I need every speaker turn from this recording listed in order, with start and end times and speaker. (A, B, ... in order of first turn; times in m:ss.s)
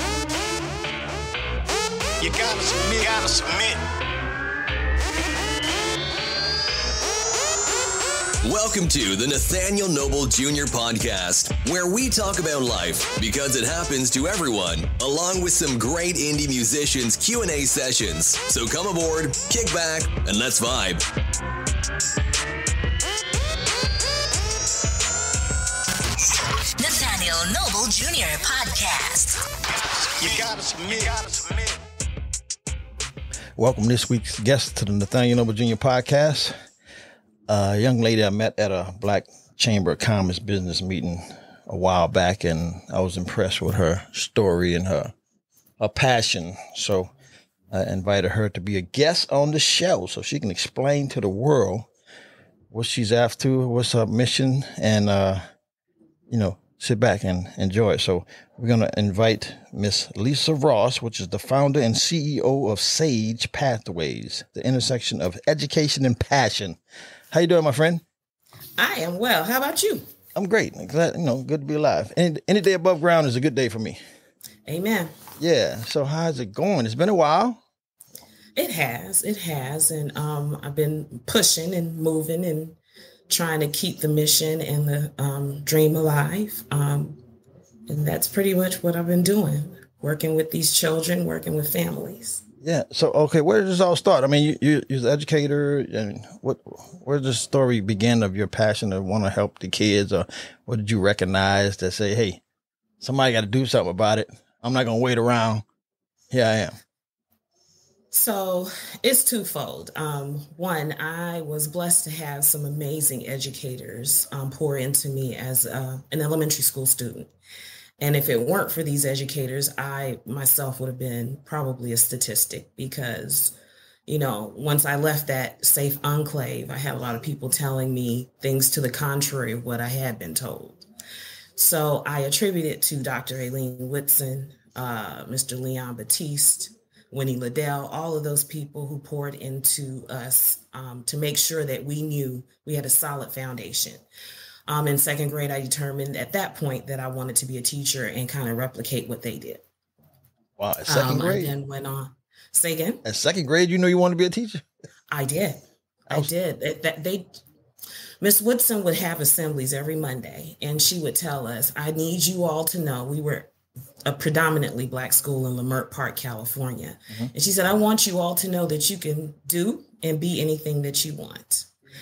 0:02.2-0:03.8 A
0:08.4-0:21.0 B
0:26.5-0:29.4 C
0:29.7-0:31.8 A
0:33.6-0:36.5 D
0:37.5-0:45.1 D
0:45.8-0:47.1 D
0:47.7-0:51.9 D
0:52.7-0:55.4 D
0:56.3-1:06.8 D
1:07.3-1:08.0 D
1:08.8-1:10.0 E
1:10.3-1:14.0 D
1:14.7-1:15.1 E
1:15.4-1:17.6 D
1:18.6-1:22.8 E
1:23.3-1:27.2 E
1:27.9-1:32.4 E
1:32.6-1:42.4 D
1:43.0-1:45.6 D
1:46.3-1:46.8 D
1:48.1-1:57.3 E
1:58.0-2:03.5 E
2:04.1-2:10.8 E
2:11.6-2:24.0 E
2:24.7-2:29.6 E
2:30.6-2:31.5 D
2:30.9-2:33.0 E
2:33.0-2:34.6 D
2:35.1-2:37.4 E
2:38.2-2:43.5 E
2:44.0-2:51.7 E